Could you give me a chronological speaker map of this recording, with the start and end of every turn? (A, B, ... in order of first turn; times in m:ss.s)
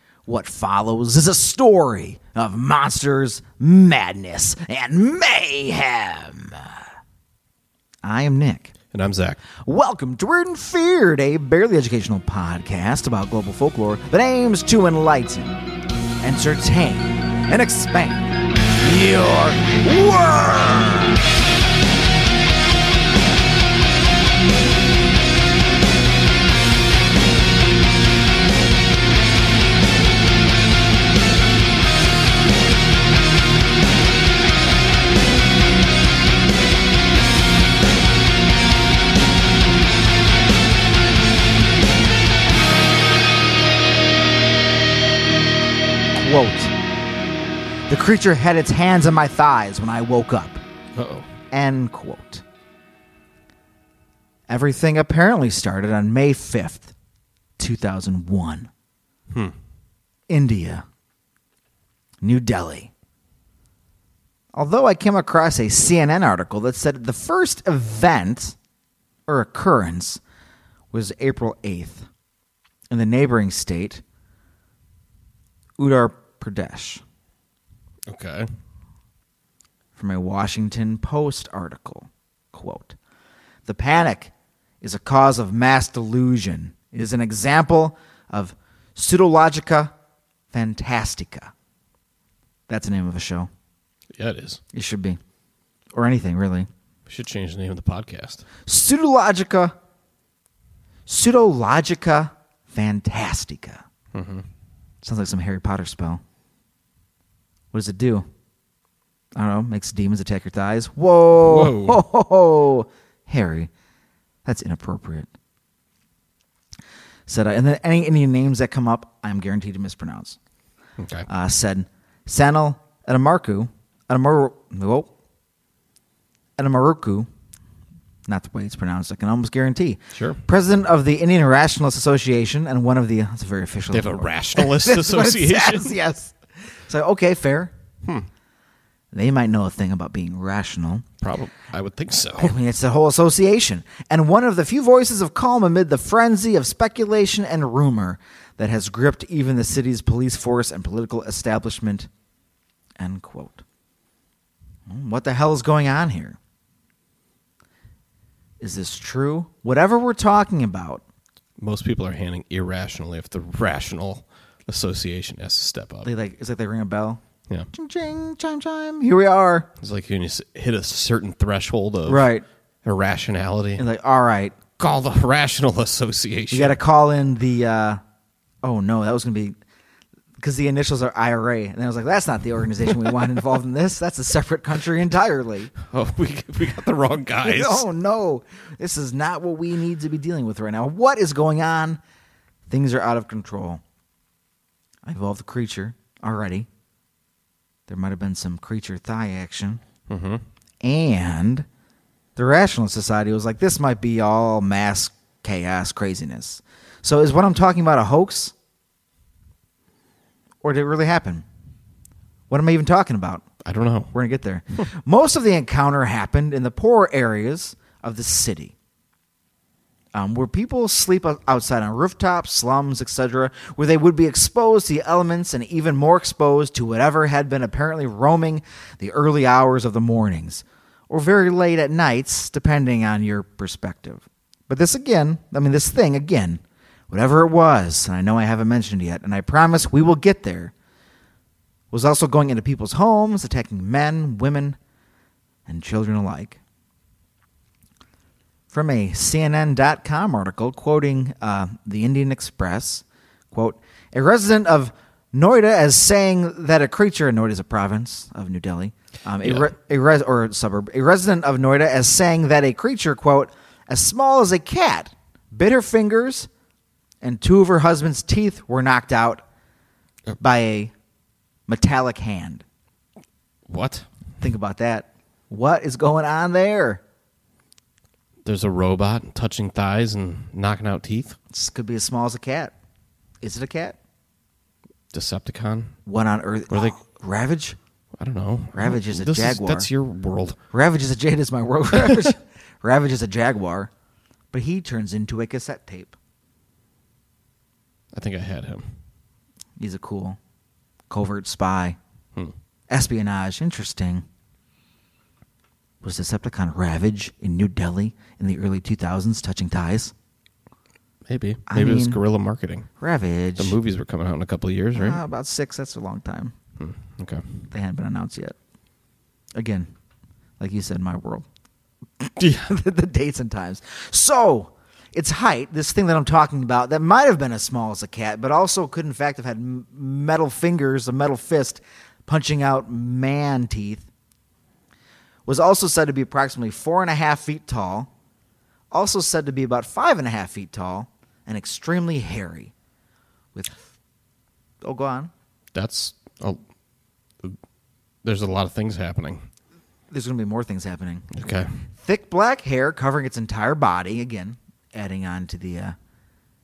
0:00.2-0:06.8 A
0:08.0-0:08.7 A
0:08.9-0:09.4 B
0:09.6-0:15.6 A
0:16.2-0:21.2 A
0:46.1-0:46.7 A
0:47.9-0:50.6 A
0:50.9-0:51.3 B
0:51.5-0:52.4 A
0:54.5-0:56.9 A
0:57.6-0:58.7 A
1:00.3-1:00.8 A
1:02.2-1:02.9 A
1:04.5-1:08.6 A
1:09.3-1:10.2 A
1:10.9-1:12.1 A
1:12.9-1:14.0 A
1:15.8-1:17.0 A
1:18.1-1:18.5 B
1:20.0-1:23.0 A
1:23.6-1:29.9 A
1:30.5-1:31.5 A
1:32.7-1:33.5 A
1:34.1-1:34.6 B
1:34.7-1:35.2 A
1:35.9-1:36.7 A
1:37.1-1:38.4 B
1:38.6-1:39.7 A
1:41.0-1:43.8 A
1:44.1-1:44.4 B
1:45.0-1:46.2 A
1:47.7-1:48.3 A
1:49.4-1:53.7 A
1:51.3-1:52.0 B
1:54.4-1:55.3 A
1:57.3-2:00.4 A
2:01.0-2:01.3 B
2:01.3-2:05.1 A
2:06.6-2:07.3 A
2:08.3-2:17.7 A
2:10.1-2:10.4 B
2:13.9-2:16.0 B
2:19.1-2:21.1 A
2:21.2-2:22.5 B
2:22.4-2:32.1 A
2:33.0-2:33.6 A
2:34.9-2:36.4 A
2:38.6-2:41.0 A
2:41.6-2:46.1 B
2:46.0-2:47.2 A
2:47.7-2:49.7 A
2:49.8-2:52.2 B
2:52.1-2:52.4 A
2:52.8-2:53.8 B
2:53.8-2:54.6 A
2:54.8-2:56.8 B
2:56.5-2:58.0 A
2:58.6-2:59.5 A
3:00.4-3:05.7 A
3:05.8-3:07.8 B
3:07.4-3:12.0 A
3:12.7-3:13.8 A
3:15.0-3:16.7 A
3:17.9-3:19.8 A
3:20.1-3:20.4 B
3:20.8-3:21.6 A
3:22.4-3:28.5 A
3:30.6-3:31.4 A
3:32.5-3:33.4 A
3:33.6-3:34.1 B
3:34.1-3:38.7 A
3:40.1-4:00.7 A
4:01.9-4:04.8 A
4:05.7-4:06.6 A
4:08.7-4:26.5 A
4:19.4-4:19.7 B
4:27.2-4:29.4 A
4:30.4-4:30.9 A
4:31.7-4:32.6 A
4:33.7-4:34.0 B
4:34.4-4:37.0 A
4:38.4-4:41.4 B
4:41.5-4:42.7 A
4:43.4-4:44.0 A
4:45.1-4:45.9 B
4:46.0-4:47.8 A
4:48.2-4:50.6 B
4:48.8-4:49.9 A
4:50.7-4:53.9 A
4:54.5-4:56.2 A
4:58.1-4:58.9 B
4:59.8-5:00.4 A
5:01.1-5:02.0 A
5:02.9-5:04.2 A
5:06.0-5:10.1 A
5:11.3-5:12.9 B
5:11.7-5:12.2 A
5:13.0-5:13.8 A
5:13.6-5:15.2 B
5:14.9-5:16.5 A
5:16.8-5:17.4 B
5:17.7-5:18.6 A
5:19.6-5:19.9 A
5:20.6-5:21.4 A
5:22.2-5:34.0 A
5:22.4-5:22.7 B
5:35.4-5:38.1 A
5:38.9-5:42.7 A
5:44.8-5:45.3 A
5:45.7-5:46.6 B
5:48.2-5:49.4 B
5:50.1-5:51.3 A
5:51.3-5:51.7 B
5:51.9-5:56.0 A